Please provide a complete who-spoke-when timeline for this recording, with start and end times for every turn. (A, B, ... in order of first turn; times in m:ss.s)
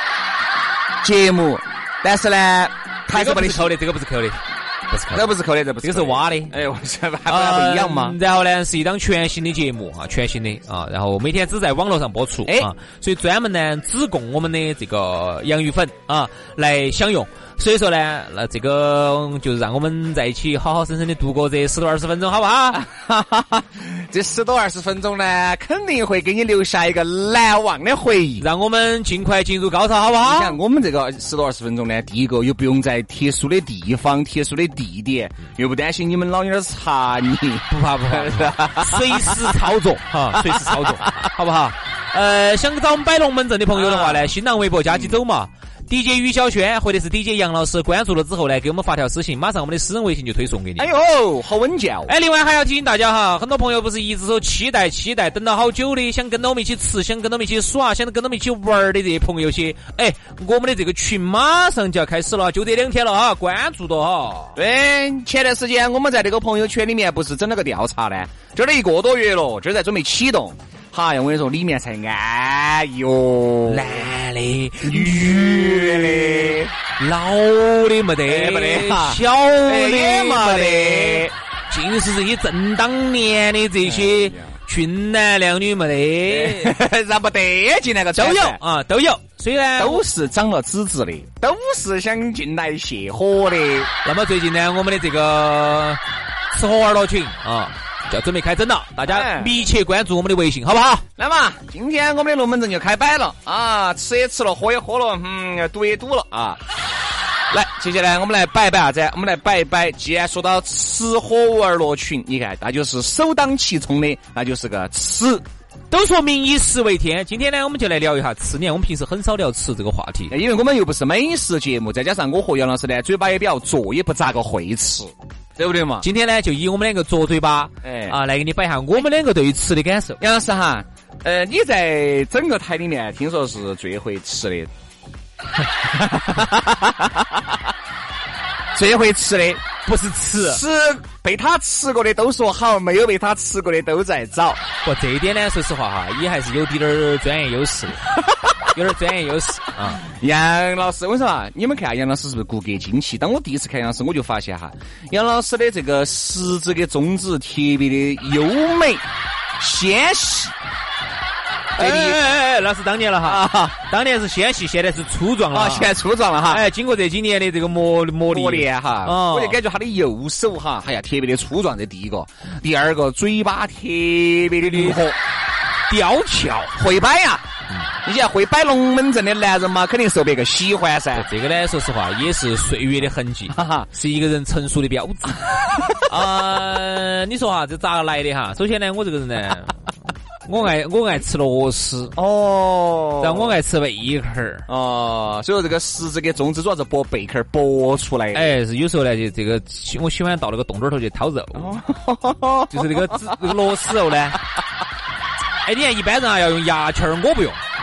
0:01.0-0:03.8 A
0:03.1-0:06.5 B
0:05.1-0:08.2 A
0:07.3-0:22.8 B
0:12.5-0:12.7 A
0:22.7-0:28.5 A
0:28.4-0:30.6 B
0:30.2-0:39.6 A
0:37.7-0:50.9 B
0:40.3-0:41.3 A
0:43.7-0:44.3 A
0:44.9-0:45.2 A
0:50.8-0:52.1 A
0:52.1-1:04.6 B
1:04.6-1:14.0 A
1:13.7-1:26.8 B
1:14.8-1:16.7 A
1:18.2-1:21.3 A
1:23.8-1:24.6 A
1:26.2-1:28.6 A
1:28.2-1:30.0 B
1:29.8-1:33.9 A
1:34.0-1:41.1 B
1:39.0-1:39.5 A
1:41.2-1:46.6 A
1:47.5-1:55.4 A
1:55.9-2:00.3 B
2:00.3-2:06.1 A
2:06.0-2:10.2 B
2:07.8-2:08.2 A
2:10.2-2:14.7 A
2:15.8-2:17.5 A
2:18.7-2:19.7 A
2:19.8-2:20.6 B
2:20.4-2:24.7 A
2:24.8-2:28.1 B
2:28.7-2:30.0 B
2:30.0-2:39.1 A
2:39.6-2:40.6 A
2:41.8-2:49.6 B
2:41.8-2:42.2 A
2:43.2-2:43.8 A
2:45.5-2:46.6 A
2:48.3-2:55.2 A
2:54.7-2:55.0 B
2:55.9-2:56.8 B
2:56.8-2:57.5 A
2:58.0-3:01.3 A
3:01.2-3:09.8 B
3:03.5-3:03.9 A
3:10.5-3:12.2 B
3:12.1-3:13.6 A
3:13.2-3:14.7 B
3:14.7-3:18.6 A
3:18.3-3:21.8 B
3:21.6-3:23.3 A
3:22.7-3:24.4 B
3:25.6-3:27.6 B